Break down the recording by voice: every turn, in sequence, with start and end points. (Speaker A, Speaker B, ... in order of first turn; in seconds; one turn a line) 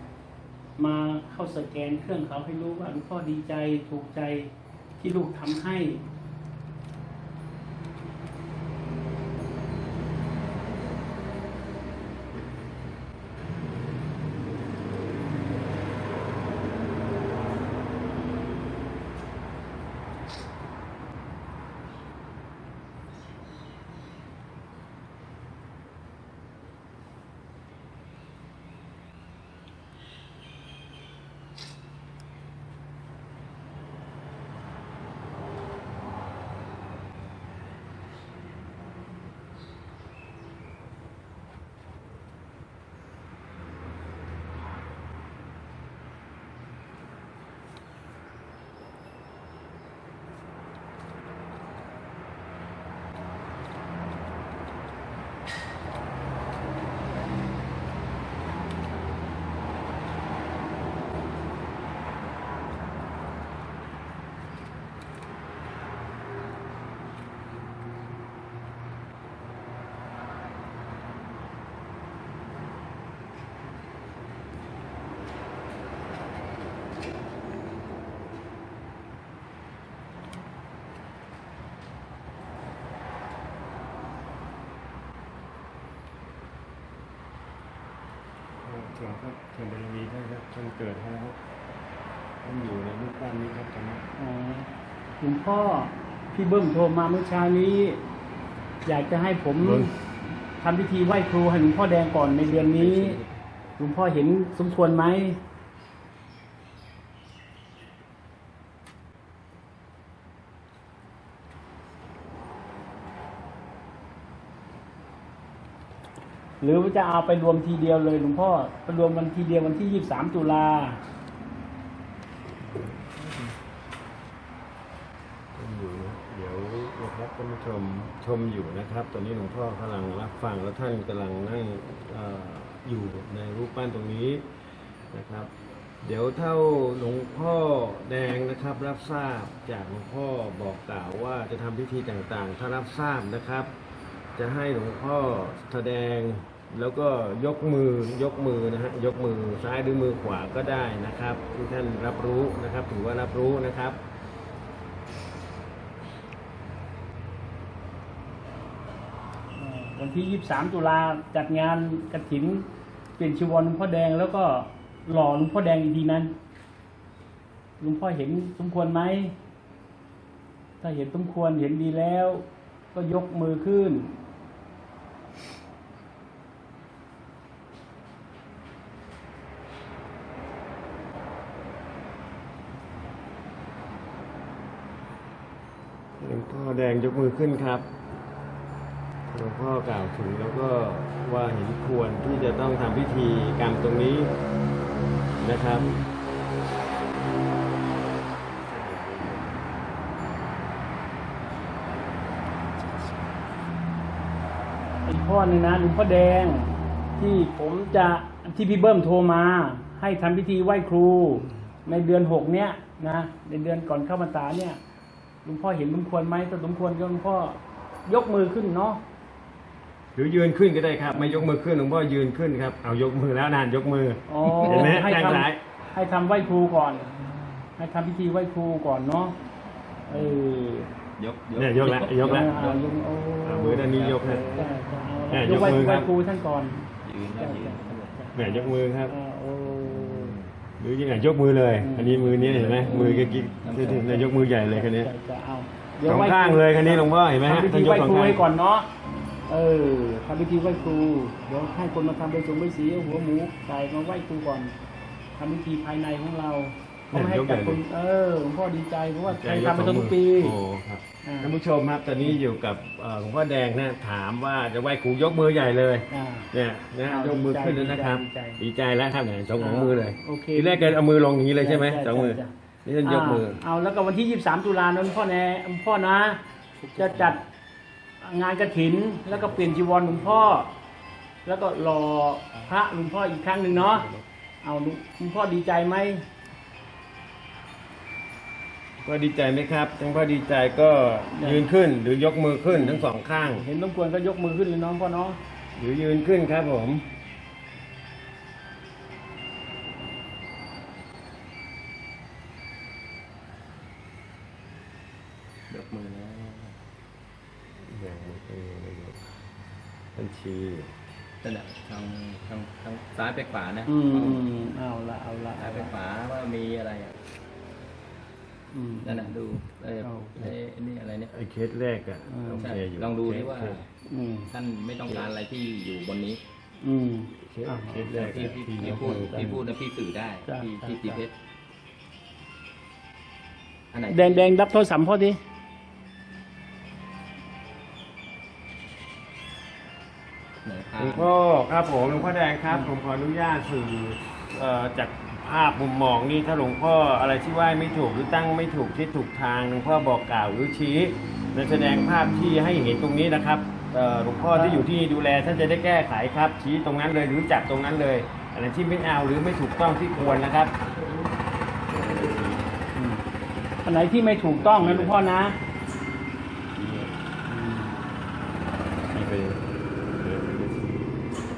Speaker A: 0.8-6.0
Speaker B: 88.6-91.4
Speaker B: 92.4-94.0
Speaker A: 94.2-94.7
Speaker A: 95.2-98.0
Speaker A: 98.8-99.9
Speaker B: 99.6-99.9
Speaker A: 100.5-103.2
Speaker C: 102.5-103.3
Speaker A: 103.8-105.4
Speaker A: 116.6-121.0
Speaker B: 122.6-123.4
Speaker B: 125.5-134.6
Speaker B: 135.1-135.5
Speaker B: 136.0-143.7
Speaker B: 144.4-154.0
Speaker A: 159.6-162.7
Speaker A: 163.2-166.3
Speaker A: 167.8-169.3
Speaker A: 170.8-174.2
Speaker B: 186.2-188.0
Speaker B: 189.3-194.3
Speaker B: 195.4-195.9
Speaker B: 198.4-200.0
Speaker B: 201.9-203.4
Speaker A: 205.1-214.8
Speaker A: 215.4-219.0
Speaker B: 220.2-225.6
Speaker A: 224.3-227.1
Speaker C: 224.5-225.0
Speaker C: 227.1-227.6
Speaker A: 227.8-229.4
Speaker A: 230.1-230.9
Speaker C: 230.1-230.4
Speaker C: 231.2-232.9
Speaker B: 231.6-232.6
Speaker A: 232.1-233.9
Speaker B: 233.4-234.6
Speaker C: 233.7-234.7
Speaker A: 234.5-240.3
Speaker B: 235.3-236.1
Speaker C: 237.0-238.2
Speaker B: 238.3-239.1
Speaker C: 239.9-240.5
Speaker B: 240.8-245.1
Speaker A: 241.8-242.1
Speaker C: 242.0-244.5
Speaker A: 242.8-243.3
Speaker A: 244.7-248.9
Speaker B: 246.0-248.4
Speaker A: 249.5-254.8
Speaker A: 255.4-260.6
Speaker B: 257.1-257.8
Speaker B: 259.3-273.6
Speaker A: 261.2-261.6
Speaker A: 266.1-266.5
Speaker A: 267.1-268.6
Speaker A: 269.6-271.0
Speaker A: 271.6-272.5
Speaker A: 273.0-276.4
Speaker A: 276.9-277.4
Speaker B: 277.0-277.3
Speaker A: 278.2-280.7
Speaker A: 281.4-284.1
Speaker B: 283.8-284.2
Speaker A: 284.6-286.3
Speaker B: 289.0-293.6
Speaker A: 291.3-291.7
Speaker A: 292.7-295.4
Speaker B: 295.8-297.1
Speaker C: 305.7-306.8
Speaker B: 307.8-309.3
Speaker B: 310.1-310.9
Speaker C: 311.4-314.5
Speaker A: 313.9-315.9
Speaker C: 315.6-317.2
Speaker A: 318.7-319.4
Speaker C: 319.0-321.3
Speaker A: 320.0-320.4
Speaker B: 321.3-323.9
Speaker A: 322.3-322.7
Speaker C: 322.6-323.8
Speaker A: 324.1-324.5
Speaker C: 324.5-326.4
Speaker A: 326.8-329.6
Speaker B: 327.4-329.6
Speaker C: 328.1-331.3
Speaker A: 330.5-331.2
Speaker C: 333.9-334.5
Speaker A: 334.1-335.4
Speaker C: 340.6-341.3
Speaker B: 341.0-360.8
Speaker A: 354.6-354.8
Speaker B: 361.9-362.8
Speaker A: 362.9-363.2
Speaker A: 363.9-365.6
Speaker B: 364.6-365.3
Speaker B: 366.7-367.2
Speaker A: 367.5-368.0
Speaker B: 369.1-371.1